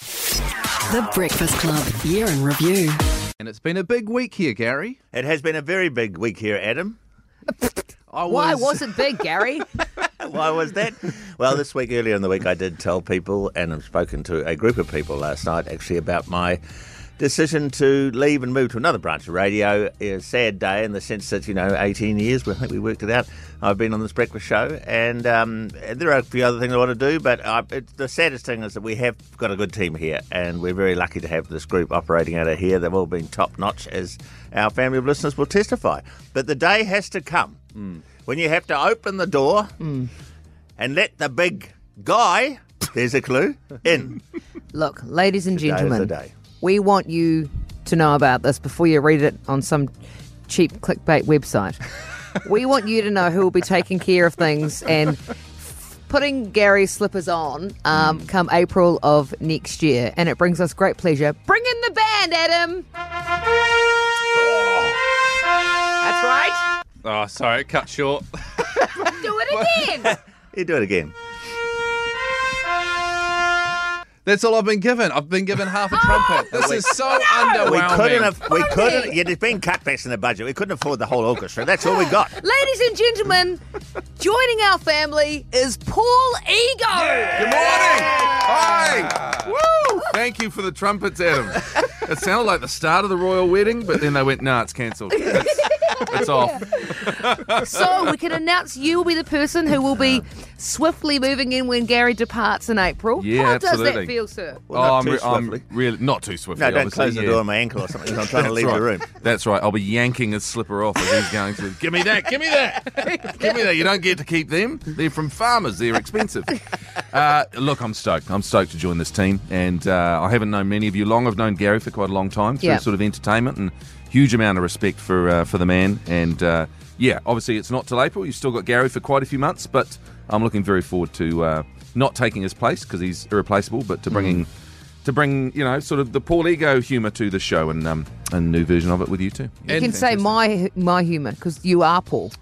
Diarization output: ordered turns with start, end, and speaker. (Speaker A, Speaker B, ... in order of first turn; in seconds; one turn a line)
Speaker A: 0.9-3.0
Speaker B: 3.4-5.0
Speaker C: 5.1-7.0
Speaker B: 8.1-9.0
Speaker D: 8.2-9.7
Speaker C: 10.2-16.6
Speaker C: 17.2-37.7
Speaker C: 38.3-39.7
Speaker D: 39.8-40.1
Speaker C: 40.8-44.2
Speaker D: 44.7-49.9
Speaker C: 45.5-46.3
Speaker D: 50.5-51.8
Speaker D: 52.3-62.9
Speaker B: 64.4-65.0
Speaker D: 66.0-66.7
Speaker B: 67.0-69.9
Speaker D: 69.0-70.2
Speaker C: 70.0-71.1
Speaker B: 74.2-78.4
Speaker D: 75.9-76.5
Speaker C: 76.0-77.0
Speaker D: 77.3-77.7
Speaker C: 77.6-82.4
Speaker D: 78.5-79.2
Speaker D: 81.8-83.6
Speaker D: 84.2-87.8
Speaker E: 87.3-98.2
Speaker D: 95.3-97.0
Speaker D: 97.5-104.7
Speaker E: 103.2-104.1
Speaker C: 104.7-105.7
Speaker E: 104.7-107.4
Speaker C: 106.5-109.1
Speaker E: 108.2-134.5
Speaker B: 134.1-134.4
Speaker E: 135.0-139.9
Speaker B: 139.7-140.3
Speaker D: 139.7-142.3